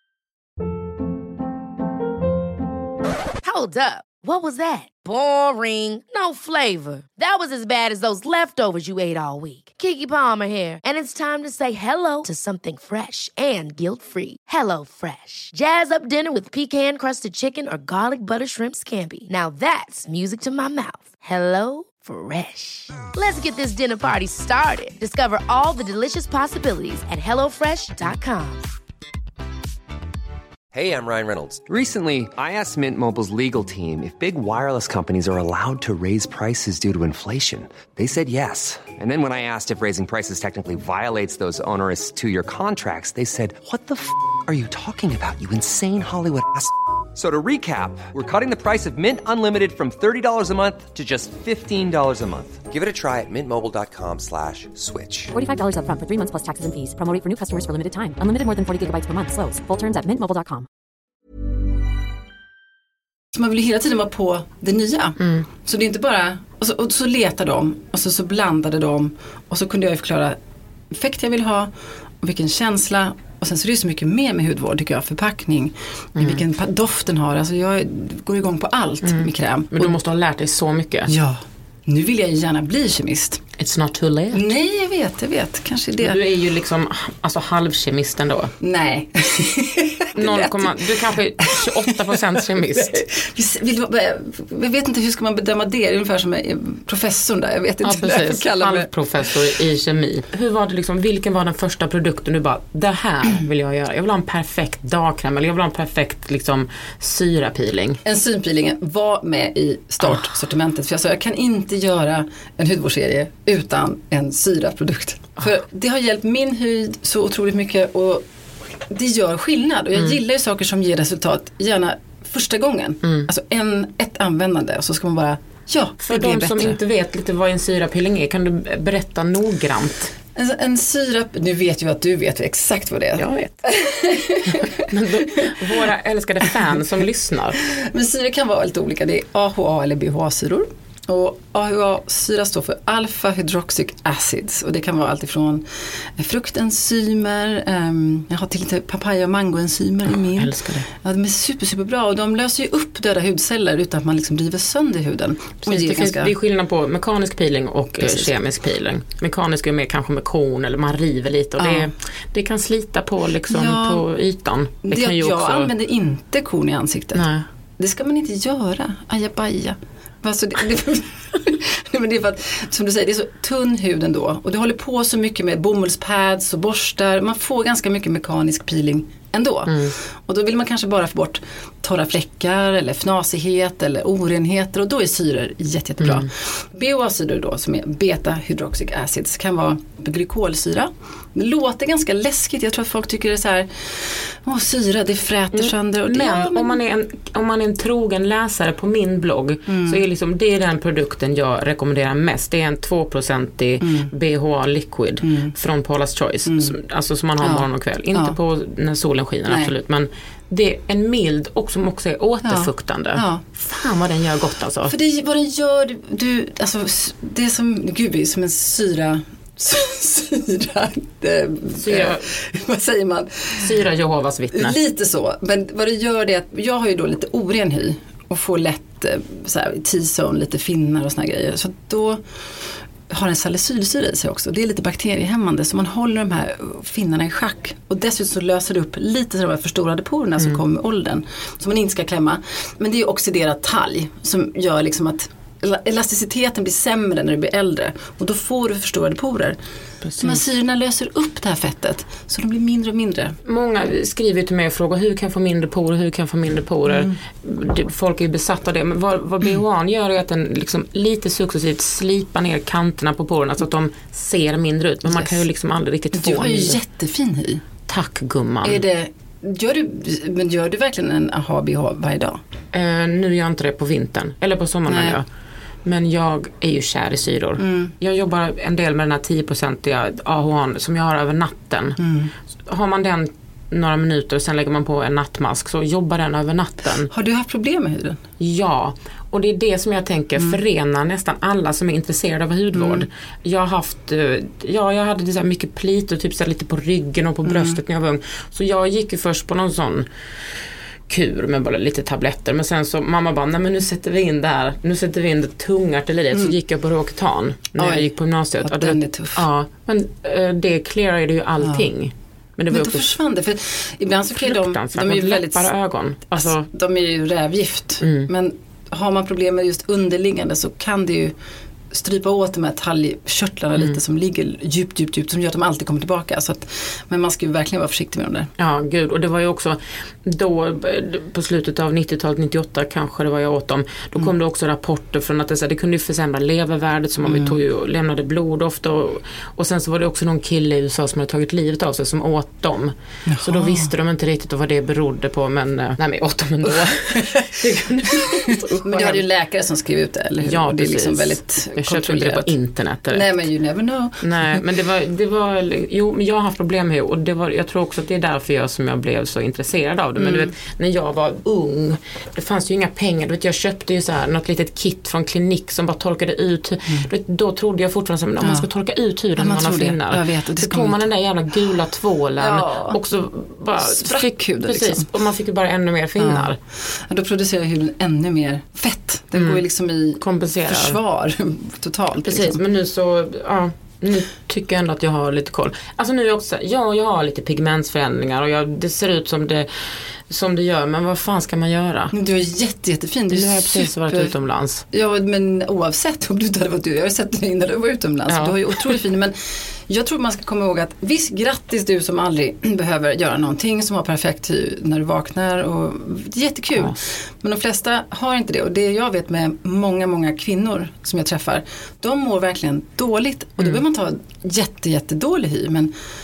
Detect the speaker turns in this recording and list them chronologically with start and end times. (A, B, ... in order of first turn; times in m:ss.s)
0:03.4-0:28.6 A
0:30.7-0:55.3 B
0:55.3-1:00.7 C
1:03.3-1:10.4 D
1:05.2-1:05.4 E
1:10.9-1:20.0 D
1:19.0-1:21.1 E
1:21.1-1:23.4 D
1:23.6-1:24.5 E
1:24.3-1:26.2 D
1:26.0-1:28.5 E
1:28.6-1:38.9 D
1:30.1-1:33.0 E
1:37.8-1:48.0 E
1:48.0-1:58.2 D
1:58.9-2:06.8 D
2:03.0-2:03.3 E
2:06.0-2:10.1 E
2:10.4-2:15.7 D
2:13.2-2:13.6 E
2:14.5-2:17.6 E
2:17.6-2:36.3 D
2:30.2-2:30.9 E
2:35.7-2:45.7 E
2:38.0-2:38.3 D
2:41.6-2:41.9 D
2:43.5-2:44.1 D
2:44.8-2:47.3 D
2:47.1-2:47.4 E
2:47.8-3:16.8 D
2:59.7-2:59.9 E
3:06.0-3:06.3 E
3:15.5-3:34.9 E
3:19.7-3:20.0 D
3:23.8-3:24.1 D
3:25.2-3:25.5 D
3:26.4-3:26.8 D
3:27.4-3:28.4 D
3:29.4-3:29.7 D
3:32.4-3:33.4 D
3:34.9-3:43.8 D
3:41.7-3:42.3 E
3:43.6-3:44.8 E
3:44.5-4:09.6 D
4:10.0-4:10.4 E
4:10.2-4:13.4 D
4:13.4-4:26.8 E
4:16.9-4:17.1 D
4:25.0-4:25.4 D
4:26.1-4:27.6 D
4:27.9-4:28.8 E
4:28.6-4:32.4 D
4:32.7-4:35.2 E
4:34.9-4:35.2 D
4:35.8-4:42.0 E
4:37.6-4:37.9 D
4:42.0-4:42.3 D
4:42.7-4:47.1 E
4:47.1-4:48.2 D
4:48.4-5:00.1 E
4:52.7-4:53.1 D
4:57.4-4:57.8 D
5:01.1-5:13.1 E
5:07.8-5:09.4 D
5:11.6-5:11.9 D
5:12.7-5:15.7 D
5:14.4-5:16.7 E
5:16.3-5:21.4 D
5:18.0-5:18.3 E
5:21.9-5:28.5 D
5:28.6-5:49.3 E
5:37.2-5:37.6 D
5:43.3-5:43.9 D
5:46.6-5:52.6 D
5:50.4-5:53.4 E
5:53.1-5:54.6 D
5:54.2-6:16.6 E
6:00.2-6:00.5 D
6:08.4-6:08.7 D
6:09.4-6:11.0 D
6:12.4-6:13.0 D
6:13.8-6:15.1 D
6:16.2-6:22.6 D
6:19.4-6:19.6 E
6:20.2-6:21.0 E
6:22.2-6:29.7 E
6:30.3-6:32.1 E
6:32.1-6:34.3 D
6:33.3-6:34.8 E
6:34.9-6:39.4 D
6:38.3-6:39.0 E
6:39.9-6:55.9 D